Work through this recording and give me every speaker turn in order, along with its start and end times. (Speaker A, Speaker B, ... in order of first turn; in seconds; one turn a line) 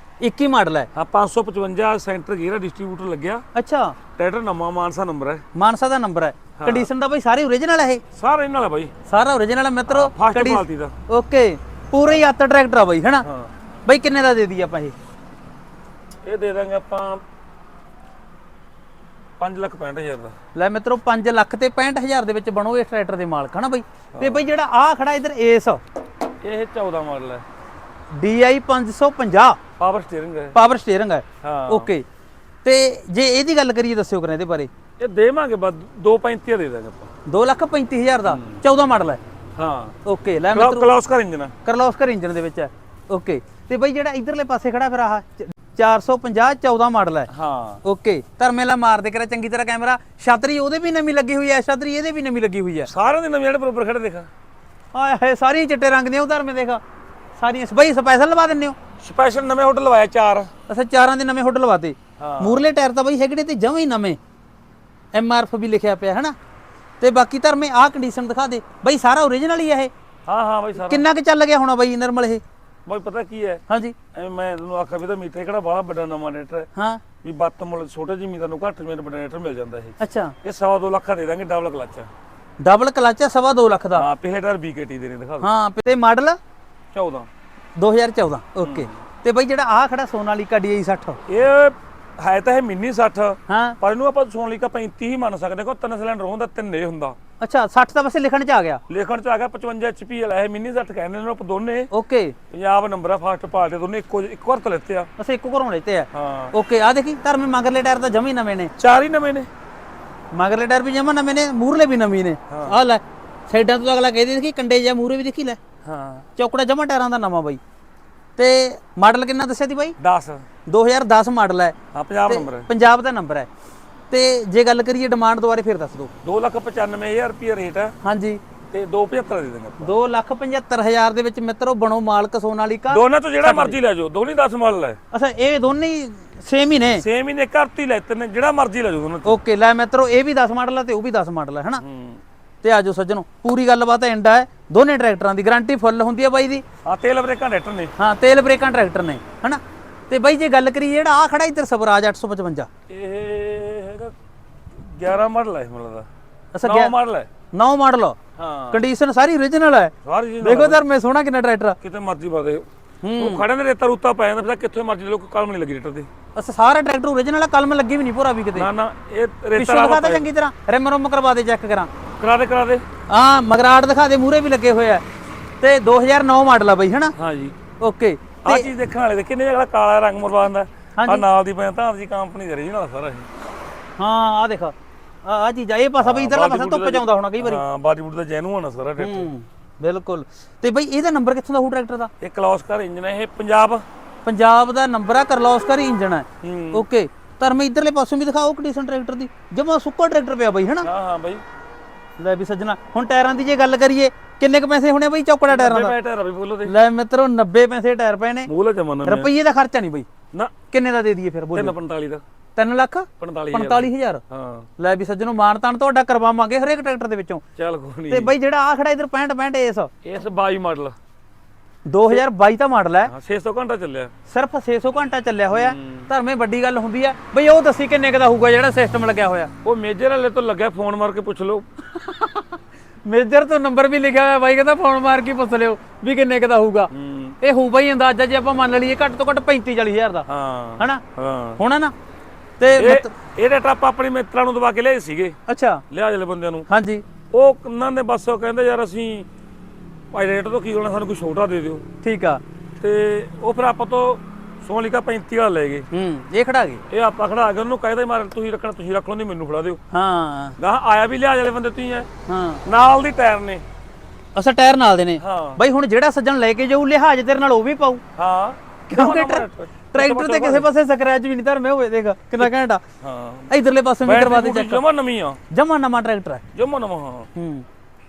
Speaker A: 0.2-0.9
Speaker B: 0.9-3.4
Speaker A: 3.5-4.0
Speaker B: 4.2-5.4
Speaker A: 5.5-8.0
Speaker B: 6.6-6.9
Speaker B: 8.1-8.9
Speaker A: 9.1-13.3
Speaker B: 9.9-10.9
Speaker B: 13.2-13.5
Speaker A: 13.8-14.9
Speaker B: 16.2-17.2
Speaker B: 19.4-20.3
Speaker A: 20.5-25.8
Speaker B: 24.1-24.4
Speaker B: 26.4-27.4
Speaker A: 28.1-29.6
Speaker B: 29.8-30.6
Speaker A: 30.5-32.0
Speaker B: 31.4-31.9
Speaker A: 32.6-34.7
Speaker B: 35.0-37.1
Speaker A: 37.3-39.2
Speaker B: 38.2-38.6
Speaker B: 39.6-40.0
Speaker A: 40.0-40.9
Speaker B: 40.5-41.5
Speaker A: 41.6-47.3
Speaker B: 47.3-47.8
Speaker A: 47.8-52.9
Speaker B: 52.8-54.3
Speaker A: 54.9-56.8
Speaker A: 57.4-58.8
Speaker B: 59.0-60.5
Speaker A: 60.7-64.2
Speaker B: 62.2-62.7
Speaker A: 65.1-66.3
Speaker A: 67.0-69.9
Speaker B: 70.3-71.0
Speaker A: 70.8-72.4
Speaker B: 72.8-76.7
Speaker A: 73.7-73.9
Speaker A: 76.8-77.0
Speaker B: 77.2-82.1
Speaker A: 80.0-80.3
Speaker A: 82.6-84.1
Speaker B: 83.9-85.5
Speaker A: 85.4-86.4
Speaker B: 86.9-87.3
Speaker A: 87.8-91.2
Speaker B: 88.6-89.0
Speaker B: 91.3-97.2
Speaker A: 93.5-93.8
Speaker A: 97.4-98.8
Speaker B: 98.9-101.9
Speaker A: 101.9-102.3
Speaker B: 102.5-105.1
Speaker A: 105.2-108.7
Speaker B: 106.1-106.5
Speaker B: 108.8-109.5
Speaker A: 110.3-115.6
Speaker B: 112.5-112.8
Speaker B: 115.8-116.3
Speaker A: 116.4-117.6
Speaker A: 118.4-120.0
Speaker B: 120.0-120.5
Speaker A: 120.7-121.8
Speaker B: 121.9-122.7
Speaker A: 122.3-123.5
Speaker A: 124.1-126.1
Speaker B: 126.2-128.0
Speaker A: 128.0-128.4
Speaker B: 128.7-129.9
Speaker A: 129.8-133.8
Speaker B: 132.9-135.0
Speaker A: 135.1-137.0
Speaker B: 136.9-139.3
Speaker A: 139.2-141.8
Speaker B: 141.8-142.2
Speaker A: 142.6-146.6
Speaker B: 146.8-147.9
Speaker A: 148.0-152.7
Speaker B: 152.9-154.1
Speaker B: 154.7-156.1
Speaker A: 156.5-156.9
Speaker B: 156.6-157.3
Speaker A: 157.5-158.2
Speaker B: 158.3-158.8
Speaker A: 158.7-161.8
Speaker B: 160.0-160.8
Speaker B: 161.8-162.7
Speaker A: 163.0-163.5
Speaker B: 163.2-166.1
Speaker A: 166.3-168.7
Speaker B: 168.5-170.3
Speaker A: 169.6-171.9
Speaker B: 172.2-172.8
Speaker A: 173.1-175.0
Speaker A: 175.6-177.1
Speaker B: 177.2-177.6
Speaker A: 177.8-178.7
Speaker B: 178.4-183.3
Speaker A: 181.0-181.3
Speaker A: 184.0-187.6
Speaker B: 186.0-189.3
Speaker A: 189.0-192.1
Speaker B: 192.2-193.8
Speaker A: 194.2-200.9
Speaker B: 196.4-196.8
Speaker B: 200.8-201.4
Speaker A: 202.2-205.9
Speaker B: 205.5-206.7
Speaker A: 206.7-208.5
Speaker B: 208.5-209.3
Speaker A: 209.0-210.1
Speaker A: 210.7-211.8
Speaker B: 211.5-212.2
Speaker A: 212.6-214.2
Speaker B: 213.2-214.7
Speaker A: 214.8-217.4
Speaker B: 217.6-218.3
Speaker A: 218.1-219.9
Speaker B: 220.0-221.0
Speaker A: 221.8-223.1
Speaker B: 223.1-224.1
Speaker A: 224.3-229.5
Speaker B: 225.5-226.1
Speaker B: 229.6-231.7
Speaker A: 231.9-240.3
Speaker B: 236.9-237.4
Speaker B: 240.3-241.6
Speaker A: 241.6-241.9
Speaker A: 242.6-243.1
Speaker B: 242.8-245.3
Speaker A: 245.5-245.8
Speaker B: 245.9-246.7
Speaker A: 246.7-247.0
Speaker B: 247.3-249.3
Speaker B: 250.1-251.8
Speaker A: 252.0-252.4
Speaker B: 252.8-255.9
Speaker A: 255.9-256.8
Speaker B: 256.9-259.8
Speaker A: 259.9-260.6
Speaker B: 260.6-262.1
Speaker A: 262.3-262.6
Speaker B: 262.6-263.6
Speaker A: 264.4-268.0
Speaker B: 265.2-265.6
Speaker B: 268.2-270.7
Speaker A: 268.9-272.8
Speaker B: 272.4-273.5
Speaker A: 273.5-274.8
Speaker B: 274.0-275.4
Speaker A: 275.5-276.4
Speaker B: 276.5-277.3
Speaker A: 277.4-277.6